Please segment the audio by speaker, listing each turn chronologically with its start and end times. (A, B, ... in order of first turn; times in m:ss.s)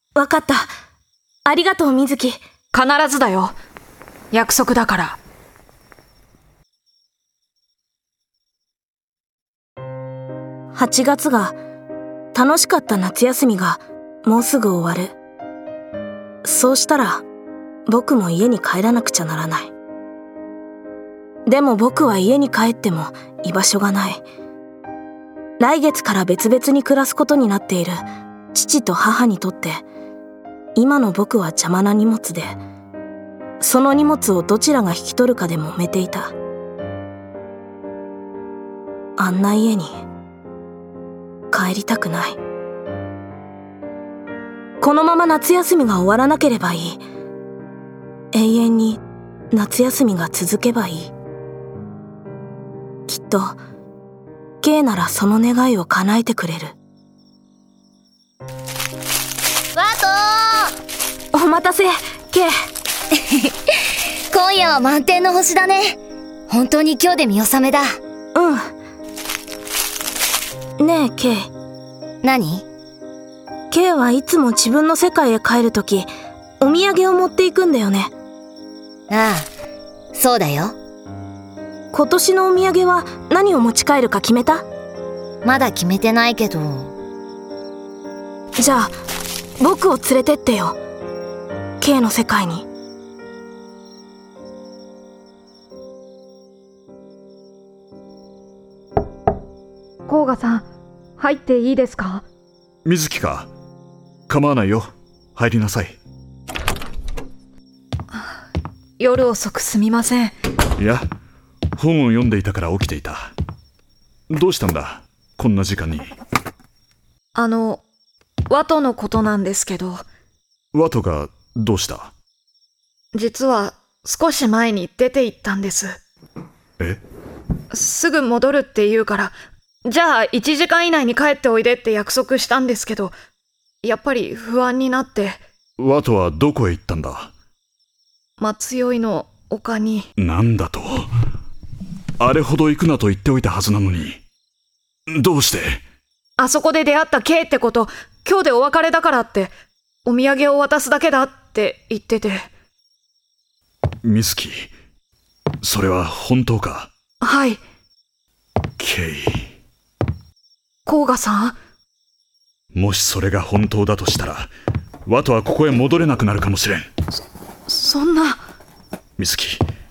0:00.2-0:00.7 A
0:01.4-0:02.4 A
0:02.7-0:03.5 B
0:04.3-0:05.2 B
0:10.7-0:11.6 A
0:12.3-0:15.2 A
0:16.4-0:17.2 A
0:17.9-0:19.7 A
0:21.5-0:24.2 A
0:25.6-0:29.8 A
0:30.8-0:32.6 A
0:33.6-0:36.3 A
0:39.2-0:40.0 A
0:41.5-0:42.4 A
0:44.8-0:47.0 A
0:48.3-0:51.1 A
0:53.1-0:53.6 A
0:54.6-0:56.8 A
0:59.8-1:00.7 C
1:01.3-1:02.5 A
1:03.1-1:08.0 C
1:08.4-1:08.7 A
1:10.8-1:11.5 A
1:12.2-1:12.6 C
1:13.7-1:16.1 A
1:16.6-1:18.1 A
1:19.1-1:19.5 C
1:20.1-1:20.8 C
1:21.9-1:24.6 A
1:25.4-1:26.9 C
1:28.6-1:28.9 A
1:29.6-1:30.8 A
1:31.8-1:32.7 A
1:40.1-1:40.6 B
1:41.2-1:42.2 B
1:42.8-1:43.5 D
1:44.3-1:46.0 D
1:48.1-1:48.4 B
1:49.0-1:50.4 B
1:50.8-1:51.1 D
1:51.8-1:53.3 D
1:54.3-1:56.1 D
1:57.4-1:57.8 B
1:58.5-2:00.0 B
2:00.7-2:02.1 D
2:03.1-2:06.0 B
2:07.7-2:09.3 B
2:09.8-2:13.1 B
2:13.8-2:15.4 B
2:15.8-2:17.3 D
2:18.4-2:20.1 B
2:20.2-2:21.1 D
2:22.2-2:24.2 D
2:25.1-2:25.8 D
2:26.4-2:29.5 B
2:30.0-2:32.5 B
2:34.0-2:34.7 D
2:35.6-2:36.9 D
2:37.2-2:37.6 B
2:38.8-2:39.5 D
2:40.9-2:41.6 B
2:42.7-2:44.5 D
2:45.1-2:46.9 D
2:47.7-2:48.4 B
2:49.2-2:49.6 D